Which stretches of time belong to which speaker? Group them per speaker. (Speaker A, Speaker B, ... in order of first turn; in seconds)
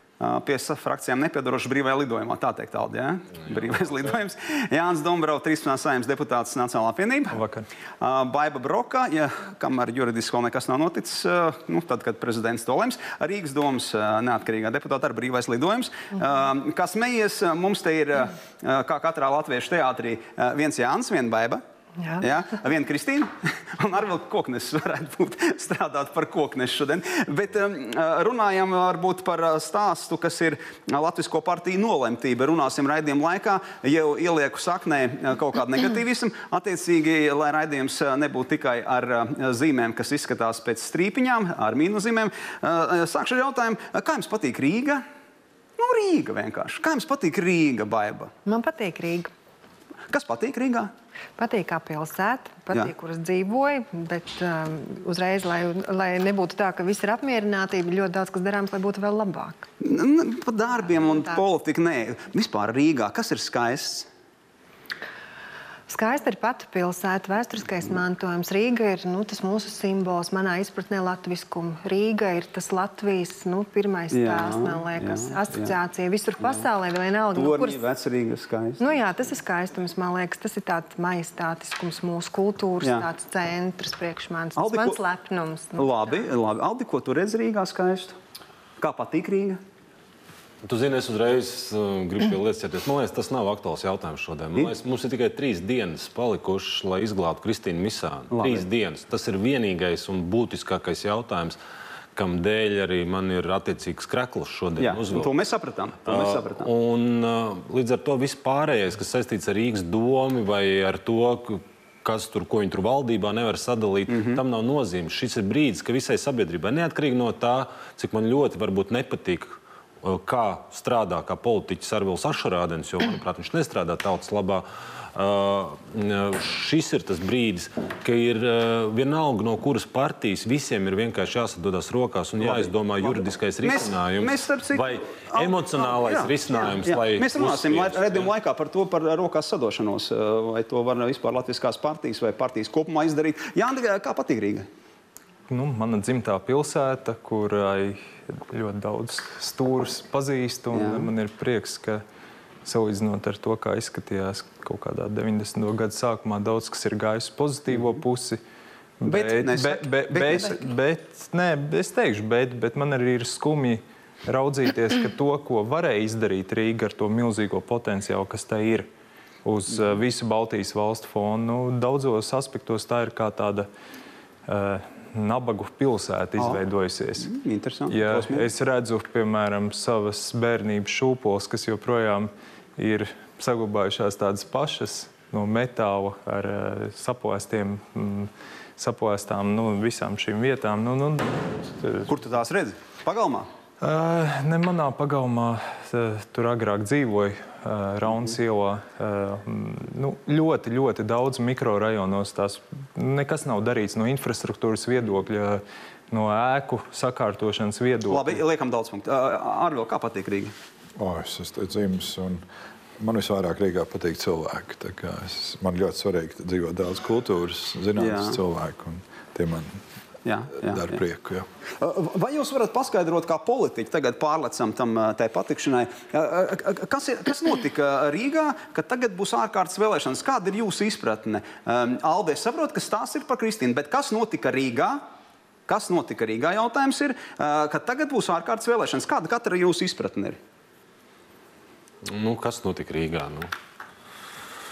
Speaker A: 0.2-7.4, 8.0-21.6, 22.2-45.0, 45.8-48.3, 50.1-50.9, 59.8-64.1, 74.1-75.7, 77.3-78.8, 82.8-83.1, 84.6-85.0, 85.8-88.2, 88.8-89.6, 98.3-98.7, 104.8-106.7, 114.1-114.4, 132.4-144.7, 150.7-151.1, 159.1-160.6, 177.2-178.5, 192.1-193.5, 208.1-210.5, 218.0-218.4, 220.2-221.0, 221.8-235.0, 235.7-240.4
Speaker B: 7.3-7.7, 145.5-152.0, 152.7-158.4, 159.0-168.9, 169.4-173.7, 174.5-177.3, 177.9-192.1, 193.8-208.4
Speaker C: 48.5-49.3, 51.4-59.7, 61.0-61.4, 65.9-77.8, 78.8-86.0
Speaker D: 90.6-101.6, 102.2-105.3, 106.0-138.3, 242.0-243.5
Speaker E: 211.0-212.4, 213.0-219.8, 220.6-221.5